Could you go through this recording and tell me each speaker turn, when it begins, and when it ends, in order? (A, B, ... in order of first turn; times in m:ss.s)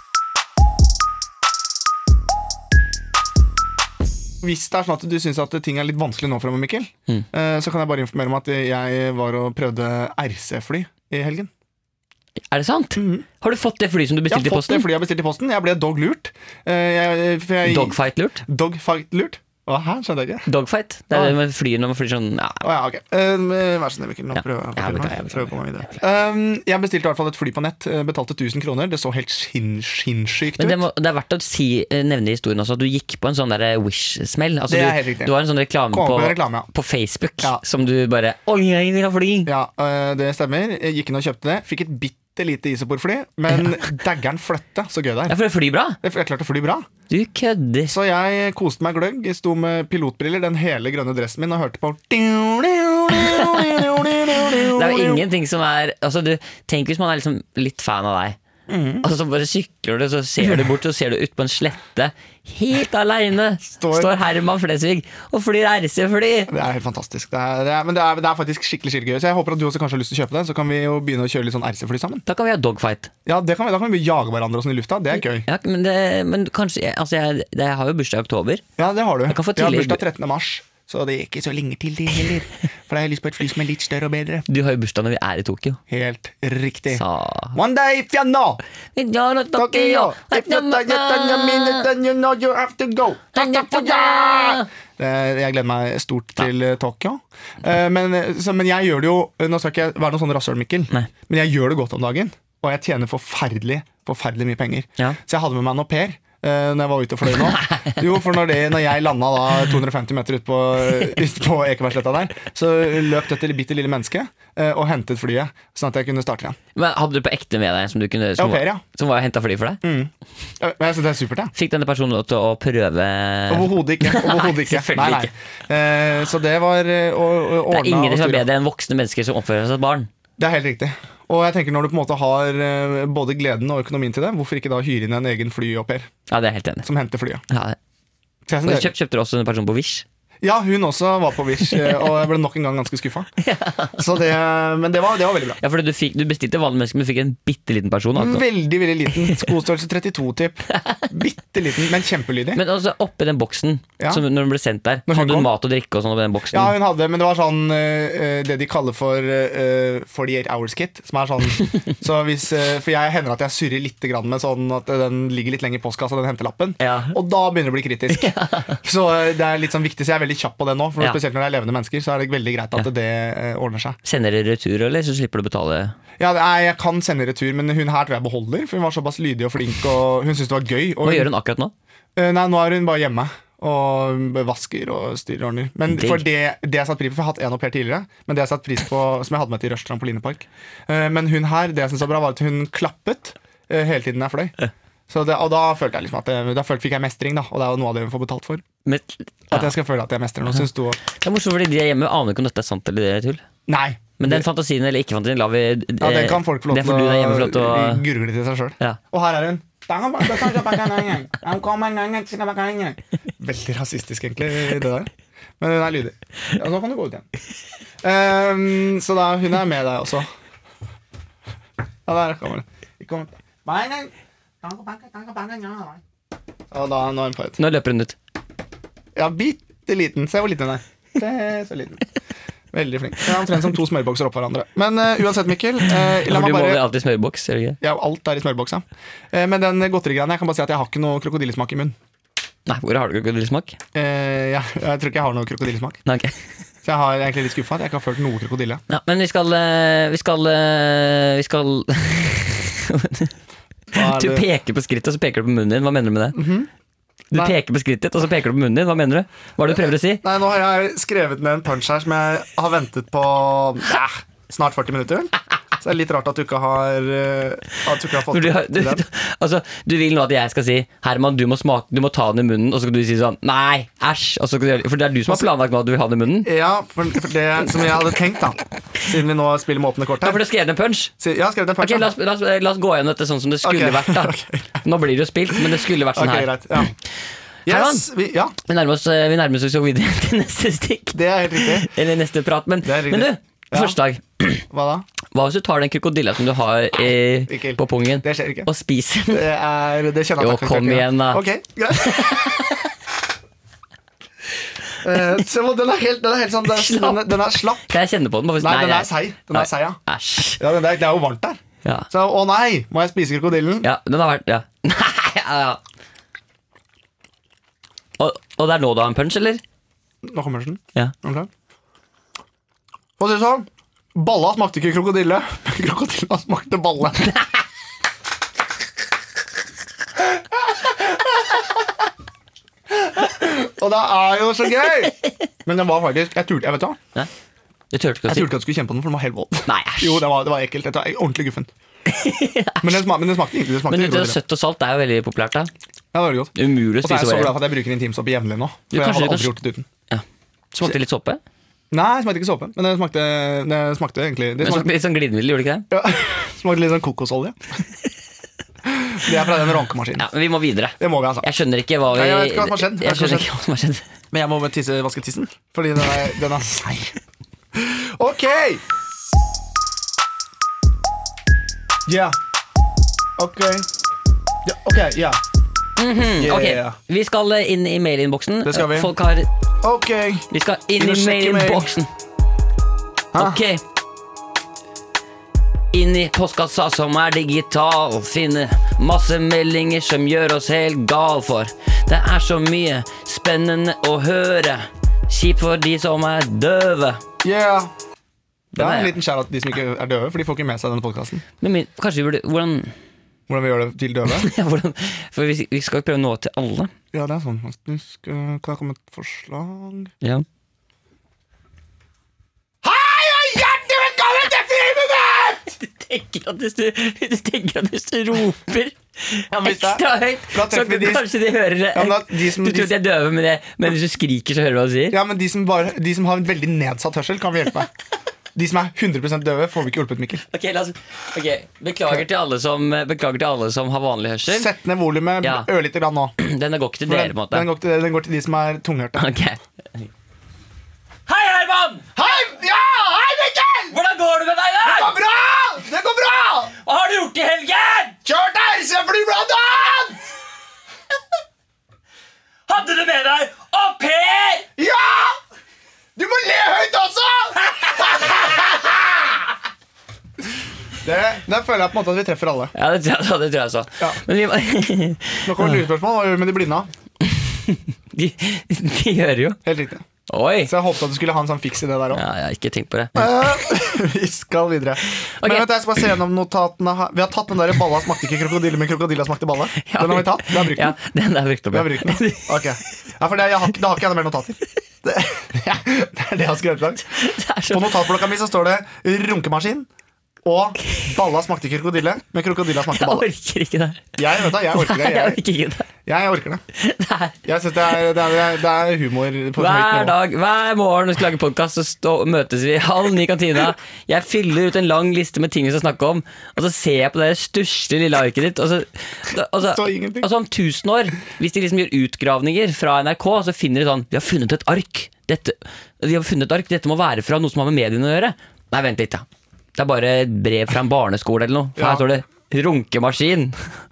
0:04.4-0:11.5 A
0:12.5-0:14.9 B
0:13.0-0:13.2 A
0:14.3-0:20.4 A
0:17.6-0:18.4 B
0:20.4-0:22.6 B
0:21.1-0:21.4 A
0:22.6-0:30.8 A
0:24.3-0:26.0 B
0:30.6-0:39.5 B
0:34.7-0:35.3 A
0:35.9-0:36.7 A
0:39.4-0:45.4 A
0:45.3-0:46.0 B
0:46.0-0:46.8 A
0:47.1-0:47.9 B
0:47.9-0:55.2 A
0:53.1-0:58.4 B
0:58.7-0:59.0 A
0:59.0-1:06.5 B
1:03.8-1:04.1 A
1:06.5-1:12.2 A
1:12.2-1:13.1 B
1:13.2-1:15.4 A
1:15.4-1:18.6 B
1:18.8-1:24.4 A
1:19.3-1:20.0 B
1:24.5-1:25.8 B
1:25.9-1:27.0 A
1:26.9-1:27.6 B
1:27.5-1:28.6 A
1:29.0-1:31.9 B
1:29.5-1:56.6 A
1:33.3-1:34.7 B
1:47.5-1:47.9 B
1:56.7-1:59.8 B
1:58.4-1:58.8 A
1:59.8-2:01.5 A
2:01.5-2:05.3 B
2:03.5-2:08.4 A
2:07.7-2:10.1 B
2:10.4-2:16.1 A
2:16.3-2:16.8 B
2:16.8-2:17.4 A
2:17.5-2:17.8 B
2:18.5-2:18.9 A
2:18.6-2:20.0 B
2:20.4-2:23.3 A
2:21.7-2:22.1 B
2:23.4-2:24.0 B
2:24.0-2:25.6 A
2:25.6-2:28.4 B
2:28.2-2:32.6 A
2:30.7-2:31.1 B
2:32.5-2:36.7 B
2:34.0-2:34.2 A
2:35.1-2:35.5 A
2:36.5-2:54.0 A
2:46.8-2:47.1 B
2:48.1-2:48.8 B
2:54.0-2:55.9 B
2:56.2-3:01.3 A
3:01.0-3:01.7 B
3:02.2-3:14.5 A
3:05.9-3:06.2 B
3:15.1-3:18.6 A
3:18.8-3:19.7 B
3:19.5-3:21.0 A
3:21.0-3:23.4 B
3:23.7-3:24.4 A
3:24.2-3:28.0 B
3:26.0-3:37.2 A
3:30.5-3:30.7 B
3:38.0-3:40.3 A
3:42.0-3:46.0 A
3:46.7-3:47.6 A
3:47.6-3:48.2 B
3:49.1-3:52.0 A
3:52.7-3:56.8 A
3:56.1-3:57.8 B
3:57.8-4:02.0 A
4:02.7-4:03.8 B
4:03.9-4:06.0 A
4:06.0-4:06.4 B
4:06.8-4:08.8 A
4:08.9-4:13.3 B
4:13.9-4:14.4 A
4:13.9-4:16.4 B
4:16.3-4:16.7 A
4:17.3-4:20.2 B
4:20.2-4:29.0 A
4:28.3-4:36.5 B
4:36.4-4:40.4 A
4:40.2-4:41.1 B
4:41.2-4:42.1 A
4:41.8-4:46.9 B
4:43.6-4:44.8 A
4:45.5-4:46.9 A
4:47.6-4:48.5 A
4:47.7-4:48.1 B
4:48.6-4:54.6 B
4:51.1-4:51.9 A
4:52.8-4:54.0 A
4:54.7-4:55.0 A
4:55.3-4:59.4 B
4:57.5-4:58.7 A
4:59.3-5:02.6 A
5:00.4-5:01.4 B
5:01.9-5:02.9 B
5:05.0-5:07.9 A
5:06.7-5:10.6 B
5:08.6-5:10.0 A
5:10.6-5:13.9 A
5:13.8-5:15.8 B
5:18.2-5:19.6 B
5:20.2-5:21.5 A
5:23.2-5:27.4 A
5:30.7-5:31.7 A
5:32.9-5:37.0 A
5:37.9-5:38.5 B
5:38.3-5:41.7 A
5:39.7-5:40.2 B
5:42.1-5:43.0 B
5:42.8-5:44.4 A
5:43.8-5:45.7 B
5:46.1-5:49.9 A
5:46.5-5:47.6 B
5:48.9-5:49.5 B
5:50.1-5:51.4 B
5:51.9-5:54.9 A
5:54.6-5:55.9 B
5:55.9-5:57.6 A
5:58.8-6:00.3 A
6:00.2-6:04.0 B
6:01.0-6:01.5 A
6:02.1-6:03.5 A
6:04.3-6:07.1 A
6:07.7-6:08.8 A
6:12.0-6:12.4 A
6:13.4-6:13.9 A
6:14.6-6:15.4 A
6:16.0-6:19.5 B
6:16.4-6:17.0 A
6:18.6-6:19.1 A
6:19.8-6:20.5 A
6:20.5-6:22.1 B
6:21.0-6:22.0 A
6:23.3-6:23.6 A
6:23.4-6:23.8 B
6:25.9-6:37.2 B
6:37.4-6:37.9 A
6:38.7-6:39.1 B
6:38.8-6:41.4 A
6:41.6-6:42.9 B
6:43.5-6:44.5 A
6:44.3-6:46.9 B
6:47.1-6:50.1 A
6:52.8-6:55.8 A
6:55.7-7:05.2 B
6:59.5-7:01.3 A
7:01.9-7:02.9 A
7:05.1-7:07.9 A
7:08.5-7:10.4 A
7:10.5-7:14.7 B
7:14.5-7:16.3 A
7:15.4-7:15.7 B
7:16.4-7:17.7 B
7:17.1-7:19.3 A
7:19.2-7:20.1 B
7:21.3-7:22.1 B
7:22.1-7:23.9 A
7:23.9-7:25.2 B
7:24.8-7:26.7 A
7:26.8-7:28.2 B
7:28.2-7:30.2 A
7:32.7-7:34.7 B
7:34.8-7:35.4 A
7:36.2-7:39.2 A
7:41.0-7:42.7 A
7:42.7-7:45.8 B
7:45.4-7:46.9 A
7:47.2-7:49.6 B
7:49.6-7:50.0 A
7:50.3-7:50.7 B
7:50.6-7:52.2 A
7:52.1-7:53.5 B
7:53.2-8:00.9 A
7:55.4-7:55.7 B
7:59.8-8:02.6 B
8:01.7-8:09.9 A
8:07.1-8:08.1 B
8:10.4-8:13.2 A
8:10.8-8:11.1 B
8:12.9-8:15.9 B
8:14.2-8:15.4 A
8:16.0-8:16.6 A
8:16.7-8:17.4 B
8:17.4-8:20.2 A
8:19.6-8:39.2 B
8:29.6-8:30.3 A
8:39.8-8:43.6 B
8:41.8-8:42.1 A